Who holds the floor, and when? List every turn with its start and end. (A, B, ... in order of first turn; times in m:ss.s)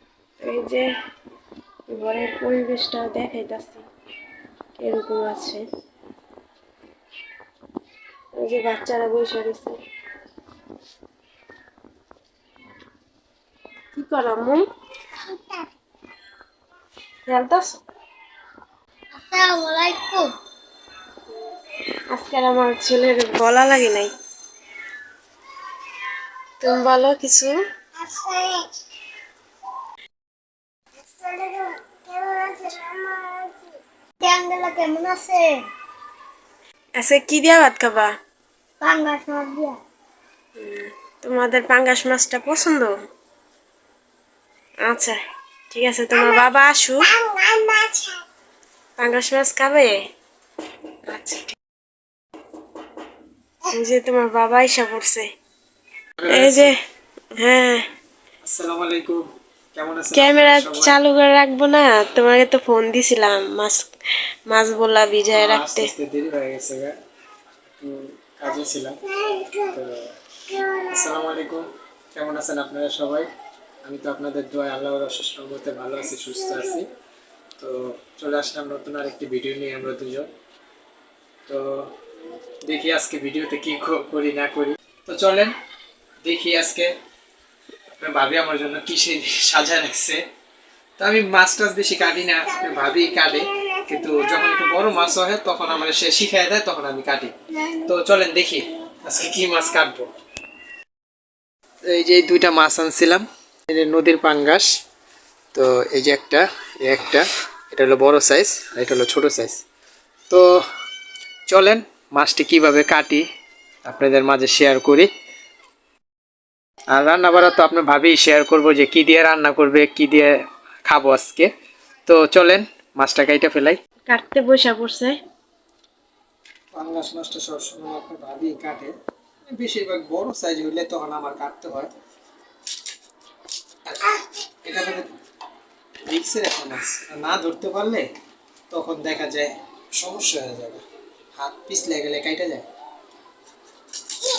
0:00.4-0:00.8 A
0:01.9-0:03.8 A
0:04.8-0:05.6 A
0:08.4-0:09.8 A
0:14.0-0:14.6 A
0:17.3-0:17.8 A
0:19.2-0:20.3 B
0:22.1-0:24.1 A
0:26.6-0:27.6 A
0:28.0-0:28.6 B
0:31.2-0:33.6 B
0:34.2-0:35.6 B
0:37.0-0:38.1 A
0:38.8-0:39.8 B
0:40.6-0:42.9 A
0:44.8-0:45.2 A
0:45.7-0:47.1 A
0:47.2-0:48.1 B
0:49.0-0:50.0 A
0:51.1-0:51.6 A
0:53.6-0:55.2 A
0:56.2-0:56.7 C
0:56.3-0:56.8 A
0:57.4-0:57.8 A
0:58.4-0:59.2 C
0:59.8-1:00.9 C
1:00.1-1:03.9 A
1:04.5-1:05.9 A
1:05.3-1:06.9 C
1:07.8-1:09.0 C
1:09.6-1:10.0 C
1:10.8-1:13.3 C
1:13.8-1:16.8 C
1:17.6-1:20.3 C
1:22.6-1:25.5 C
1:26.2-1:26.9 C
1:28.0-1:30.2 C
1:31.0-1:40.1 C
1:41.9-1:44.7 C
1:45.5-1:49.6 C
1:50.3-1:50.6 C
1:51.5-1:53.2 C
1:53.8-1:55.1 C
1:56.9-2:00.3 C
2:00.8-2:01.5 C
2:02.1-2:03.8 C
2:04.1-2:05.2 A
2:06.7-2:08.9 C
2:09.5-2:11.9 C
2:13.8-2:15.1 C
2:16.1-2:18.0 C
2:18.7-2:20.8 C
2:21.4-2:22.6 C